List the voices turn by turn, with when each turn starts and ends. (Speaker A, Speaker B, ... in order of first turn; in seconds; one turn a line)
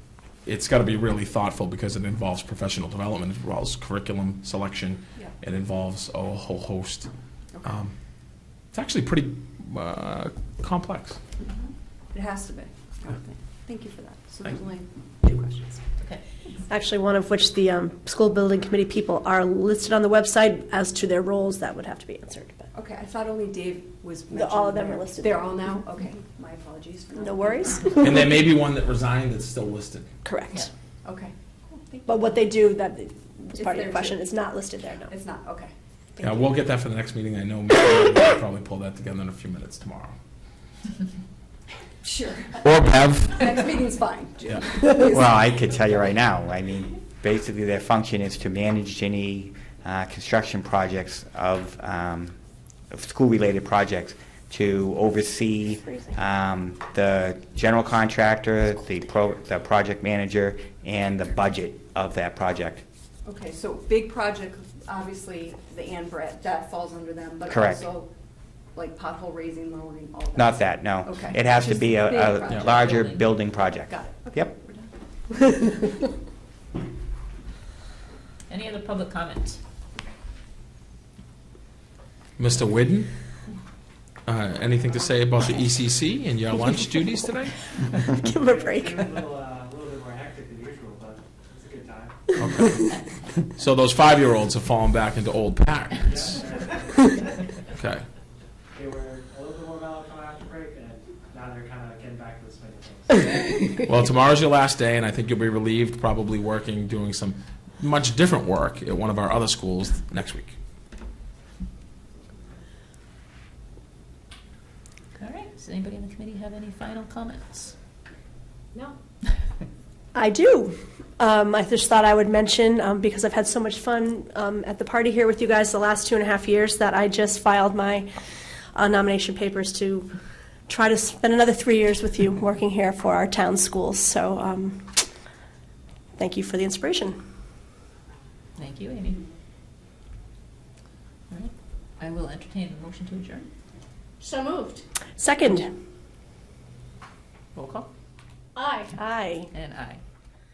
Speaker A: 0.4-7.1
Speaker A: 7.6-7.9
Speaker A: 8.7-11.2
Speaker B: 12.1-15.8
Speaker C: 16.7-22.7
Speaker B: 22.7-28.3
Speaker C: 24.4-25.6
Speaker C: 27.1-28.2
Speaker A: 28.0-30.1
Speaker C: 30.2-30.7
Speaker B: 31.0-32.5
Speaker C: 32.0-35.1
Speaker B: 33.6-34.2
Speaker B: 35.1-35.7
Speaker A: 36.2-40.1
Speaker B: 42.0-45.3
Speaker A: 42.6-43.1
Speaker D: 45.0-52.4
Speaker D: 52.9-62.8
Speaker B: 63.2-68.1
Speaker D: 67.5-67.8
Speaker B: 68.7-73.1
Speaker D: 70.3-74.5
Speaker E: 72.8-73.2
Speaker B: 73.9-75.9
Speaker E: 78.5-79.6
Speaker A: 82.4-83.1
Speaker A: 84.2-87.7
Speaker C: 88.0-89.3
Speaker F: 88.3-92.2
Speaker A: 92.4-93.0
Speaker A: 93.5-96.2
Speaker F: 96.0-97.3
Speaker A: 97.7-98.0
Speaker F: 98.7-103.2
Speaker A: 103.8-110.5
Speaker E: 115.1-117.7
Speaker C: 120.1-128.1
Speaker C: 128.7-130.1
Speaker C: 130.7-135.1
Speaker C: 136.2-137.2
Speaker E: 138.6-139.2
Speaker E: 141.3-143.5
Speaker C: 145.2-145.7
Speaker E: 147.5-147.9
Speaker C: 148.9-149.5
Speaker E: 149.5-150.0